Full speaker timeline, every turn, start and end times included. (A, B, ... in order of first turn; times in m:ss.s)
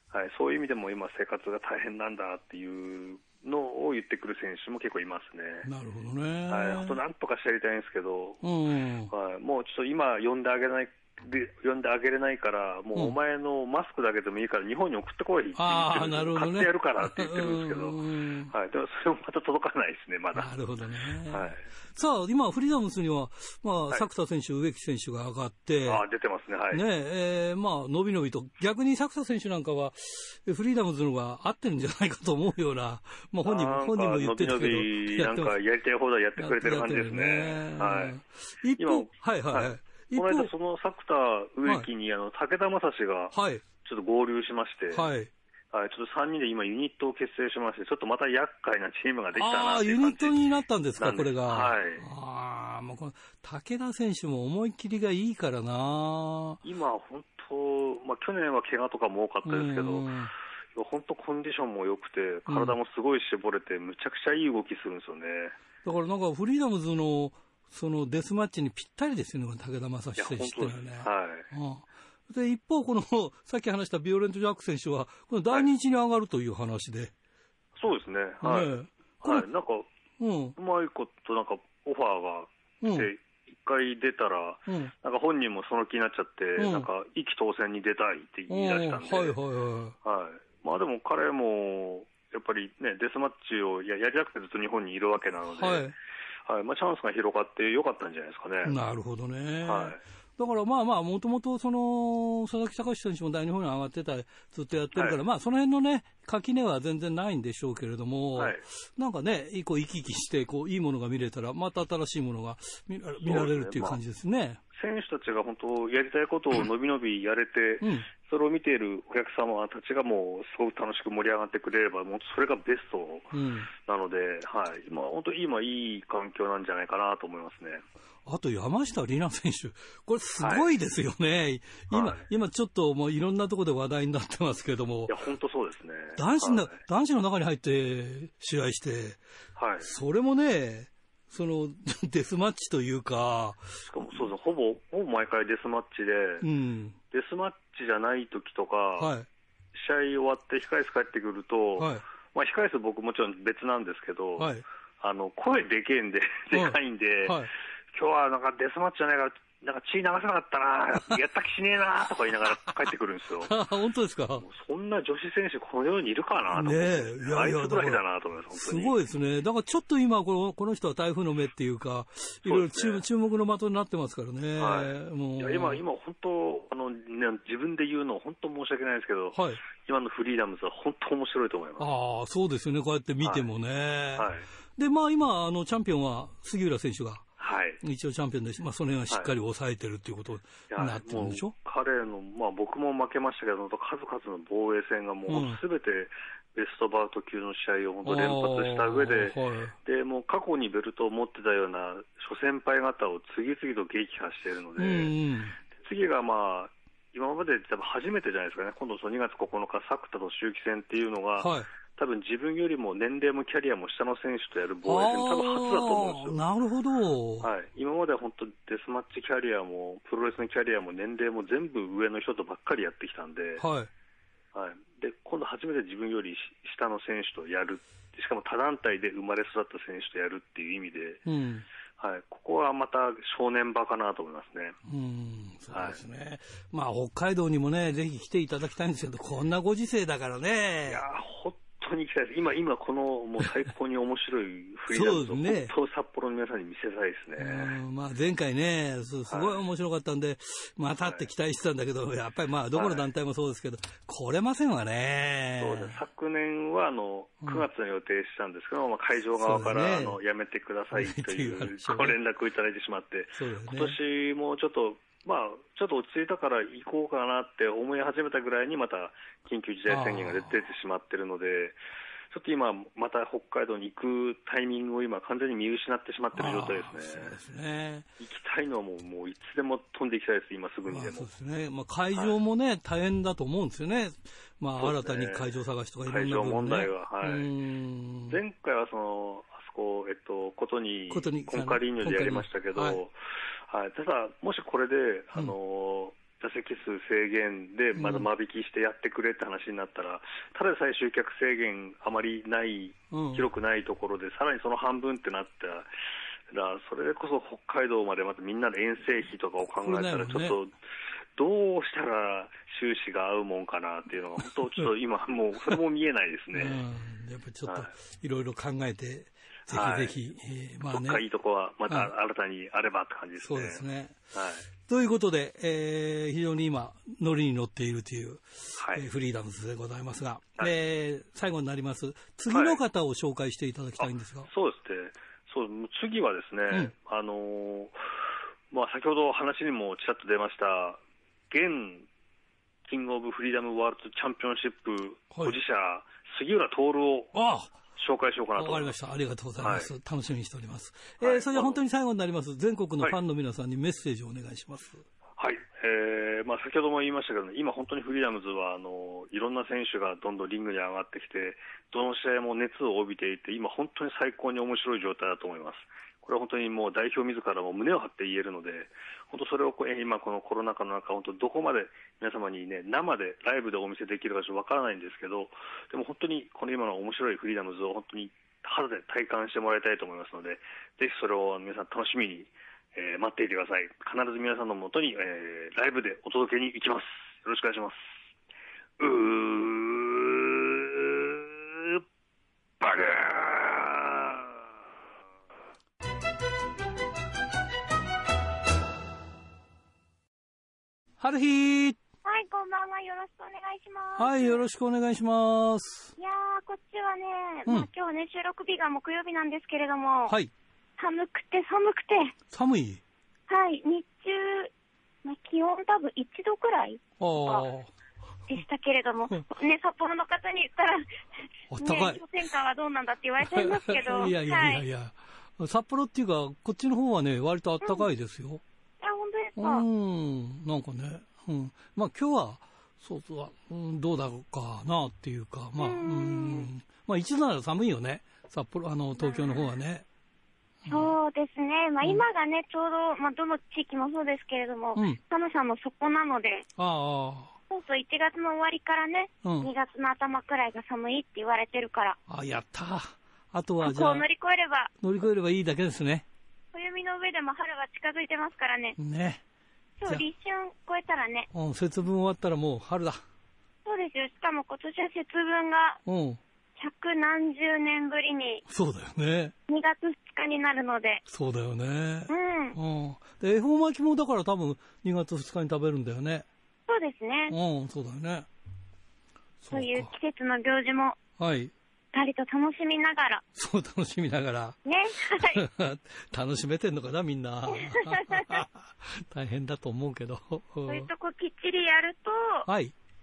0:00.1-0:05.7 A
0:05.6-0:07.0 B
0:06.5-0:08.4 A
0:08.4-0:09.1 B
0:09.1-0:20.5 A
0:15.6-0:18.5 B
0:20.3-0:26.0 B
0:21.3-0:21.6 A
0:25.9-0:26.8 A
0:26.7-0:35.6 B
0:33.4-0:38.2 A
0:36.4-0:40.5 B
0:38.8-0:45.1 A
0:43.3-0:43.6 B
0:44.9-0:45.3 B
0:45.7-0:50.4 A
0:49.4-0:56.6 B
0:51.0-0:52.0 A
0:56.6-1:00.1 A
0:59.4-1:00.3 B
1:00.8-1:05.6 A
1:02.5-1:02.8 B
1:05.8-1:17.1 B
1:10.2-1:11.5 A
1:17.8-1:19.9 A
1:18.4-1:19.5 B
1:20.2-1:20.6 B
1:20.6-1:29.4 A
1:22.8-1:23.1 B
1:24.7-1:24.9 B
1:26.6-1:26.9 B
1:28.5-1:30.0 B
1:30.0-1:35.9 A
1:35.6-1:35.9 B
1:36.5-1:38.8 A
1:38.6-1:54.6 B
1:39.6-1:40.0 A
1:48.4-1:48.6 A
1:53.2-1:54.0 A
1:54.7-2:07.8 A
1:57.8-1:58.1 B
2:03.3-2:03.7 B
2:08.2-2:15.1 B
2:10.4-2:10.7 A
2:11.9-2:12.2 A
2:15.1-2:16.8 A
2:16.2-2:19.2 B
2:19.6-2:19.9 A
2:19.8-2:24.2 B
2:23.9-2:26.5 A
2:26.4-2:27.0 B
2:27.1-2:29.1 A
2:29.0-2:29.3 B
2:29.8-2:43.5 A
2:31.8-2:32.0 B
2:34.4-2:34.6 B
2:36.5-2:37.5 B
2:43.4-2:44.4 B
2:44.4-2:49.0 A
2:46.5-2:48.0 B
2:48.5-2:55.8 B
2:52.4-2:53.0 A
2:54.6-3:01.9 A
2:59.3-2:59.6 B
3:01.8-3:07.2 B
3:03.2-3:03.5 A
3:04.2-3:04.5 A
3:07.4-3:07.8 A
3:07.8-3:11.5 B
3:10.7-3:25.1 A
3:15.3-3:15.6 B
3:18.0-3:19.8 B
3:24.8-3:25.6 B
3:25.8-3:36.4 A
3:31.4-3:31.7 B
3:34.8-3:37.5 B
3:37.4-3:43.6 A
3:43.6-3:43.9 B
3:44.5-3:51.2 A
3:51.2-3:51.6 B
3:52.0-3:54.8 A
3:54.9-4:01.0 B
3:55.7-3:56.0 A
4:00.9-4:07.8 A
4:04.9-4:05.7 B
4:07.4-4:15.9 B
4:09.3-4:09.6 A
4:12.7-4:13.1 A
4:15.6-4:31.8 A
4:19.4-4:20.2 B
4:20.9-4:22.2 B
4:23.4-4:24.0 B
4:29.9-4:30.6 B
4:32.3-4:37.4 A
4:36.3-4:38.1 B
4:38.2-4:41.3 A
4:40.9-4:48.4 B
4:44.8-4:47.5 A
4:48.3-4:53.1 A
4:51.1-4:53.0 B
4:53.7-5:05.9 A
4:57.9-4:58.3 B
5:03.1-5:03.5 B
5:06.5-5:10.7 A
5:09.8-5:10.6 B
5:11.4-5:16.8 A
5:16.5-5:21.2 B
5:19.7-5:20.1 A
5:20.9-5:24.7 A
5:23.4-5:24.2 B
5:24.9-5:34.5 B
5:28.8-5:29.0 A
5:32.5-5:32.8 A
5:34.0-5:37.9 A
5:38.7-5:42.1 A
5:42.9-5:47.3 A
5:47.3-5:47.7 B
5:48.0-5:49.0 A
5:48.6-5:55.0 B
5:49.6-5:49.9 A
5:51.2-5:51.8 A
5:55.4-6:28.1 A
6:29.0-6:32.0 A
6:32.8-6:34.5 A
6:41.2-6:42.0 B
6:42.2-6:44.6 C
6:44.2-6:46.1 B
6:46.2-6:50.4 C
6:51.0-6:52.3 C
6:52.5-6:53.0 B
6:53.5-6:54.7 C
6:55.2-6:57.6 C
6:57.2-6:57.9 B
6:58.5-7:01.2 C
7:01.7-7:02.2 B
7:01.8-7:04.8 C
7:03.5-7:08.6 B
7:07.8-7:08.1 C
7:09.0-7:09.9 C
7:09.6-7:20.0 B
7:15.8-7:16.7 C
7:19.2-7:19.7 C
7:20.8-7:21.1 B
7:20.9-7:26.6 C
7:25.0-7:25.2 B
7:26.8-7:27.5 B
7:27.7-7:32.2 C
7:29.4-7:29.7 B
7:32.3-7:34.2 B
7:33.8-7:34.9 C
7:35.0-7:36.2 B
7:36.7-7:39.0 C
7:39.0-7:39.4 B
7:40.0-7:41.5 C
7:41.5-7:43.2 B
7:43.8-7:46.0 C
7:46.0-7:46.4 B
7:46.8-7:48.6 C
7:48.7-7:49.5 B
7:49.7-7:51.2 C
7:51.3-7:56.5 B
7:52.3-7:52.8 C
7:56.9-7:57.6 C
7:57.5-7:58.5 B
7:59.6-8:00.1 B
7:59.7-8:01.2 C
8:01.4-8:01.7 B
8:02.1-8:03.4 C
8:03.6-8:04.8 B
8:04.8-8:05.6 C
8:05.3-8:11.1 B
8:07.8-8:08.6 C
8:10.9-8:12.7 C
8:12.7-8:12.9 B